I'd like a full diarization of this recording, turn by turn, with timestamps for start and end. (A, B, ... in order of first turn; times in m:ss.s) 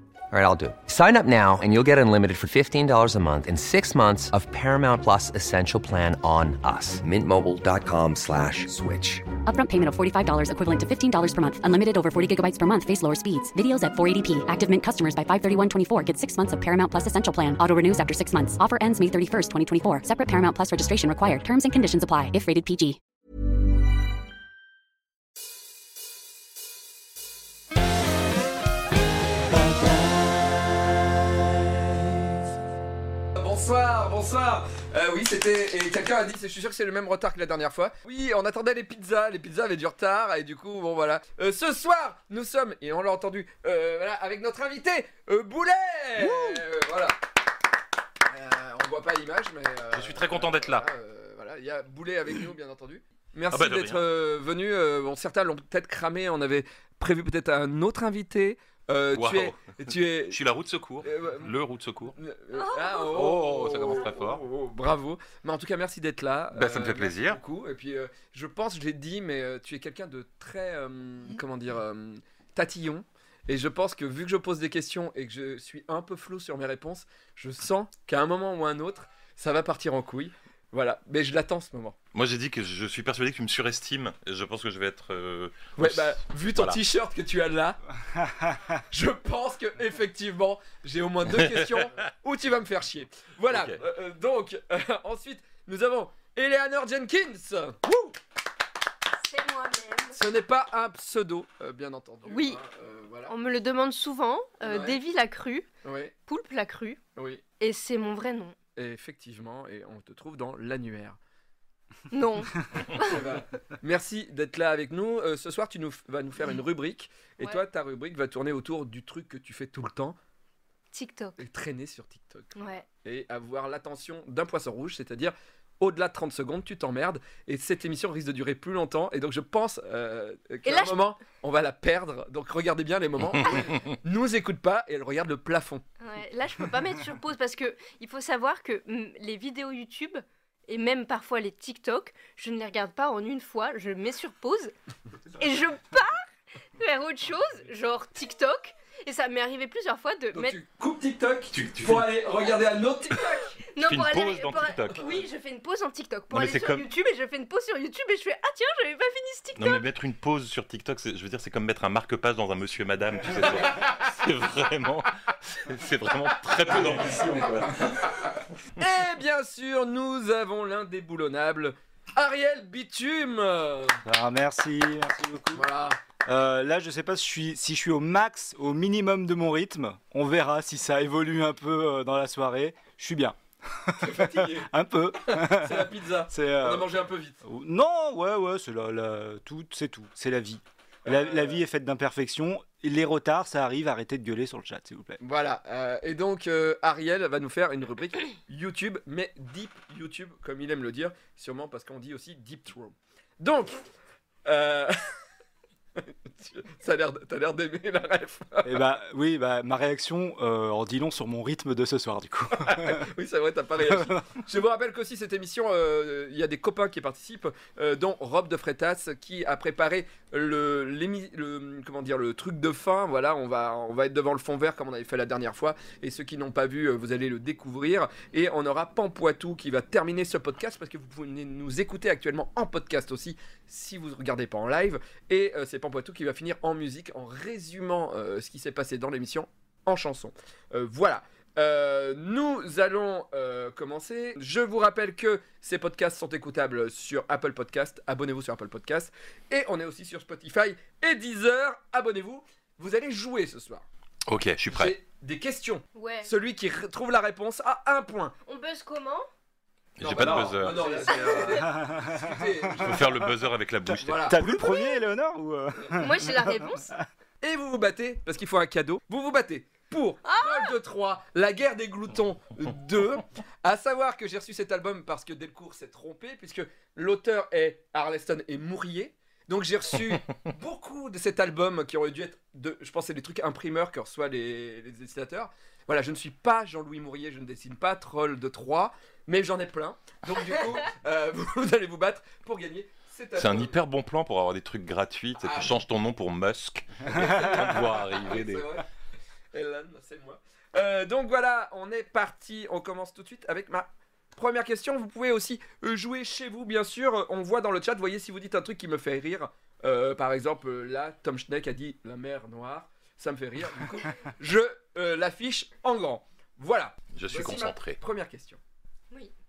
0:00.3-0:09.3 A
0:09.5-0:23.0 B
0:33.4-0:47.2 C
0:46.2-0:46.6 D
0:48.3-1:00.4 C
0:49.9-0:50.9 E
0:53.5-0:54.0 E
0:59.1-1:02.2 E
1:01.0-1:01.5 C
1:02.2-1:22.0 C
1:02.5-1:03.2 F
1:03.1-1:04.4 E
1:06.5-1:07.4 E
1:22.1-1:26.8 E
1:25.8-1:27.8 C
1:28.2-1:28.6 D
1:28.9-1:38.2 C
1:31.4-1:31.8 E
1:33.5-1:33.8 E
1:39.2-1:40.2 F
1:40.1-1:43.3 C
1:42.3-1:42.6 F
1:43.3-1:45.7 F
1:44.6-1:45.0 C
1:45.8-1:46.1 C
1:46.3-1:47.0 F
1:47.2-1:47.4 C
1:47.6-1:48.6 F
1:48.8-1:51.2 C
1:52.1-1:53.2 F
1:52.8-2:00.2 C
2:00.9-2:01.4 F
2:01.4-2:15.8 C
2:02.6-2:02.8 F
2:10.6-2:11.0 F
2:16.0-2:24.7 F
2:25.4-2:26.2 F
2:26.8-2:30.6 F
2:30.4-2:33.5 C
2:31.5-2:32.1 E
2:33.2-2:39.8 F
2:33.8-2:35.0 E
2:36.3-2:36.9 E
2:39.6-2:48.1 E
2:46.7-2:47.5 C
2:48.8-2:54.0 C
2:54.0-2:55.7 D
2:55.5-2:56.0 C
2:56.2-3:15.2 D
3:04.0-3:04.7 C
3:05.2-3:07.4 C
3:11.1-3:11.6 C
3:15.2-3:23.8 C
3:24.4-3:25.0 C
3:26.0-3:28.8 C
3:28.6-3:33.1 D
3:32.7-4:13.8 C
3:33.8-3:34.4 D
4:14.3-4:15.0 E
4:14.7-4:18.3 C
4:16.0-4:16.3 F
4:18.5-4:19.3 F
4:20.0-4:21.2 E
4:20.0-4:23.2 C
4:21.0-4:21.6 F
4:21.5-4:23.0 D
4:22.8-4:24.4 E
4:23.9-4:27.1 D
4:24.0-4:24.6 C
4:24.4-4:25.0 F
4:26.0-4:26.9 F
4:27.4-4:53.7 C
4:30.2-4:30.8 F
4:53.4-4:58.7 E
4:55.4-4:55.8 C
4:57.1-4:58.8 C
4:59.5-5:18.6 C
5:17.1-5:18.0 E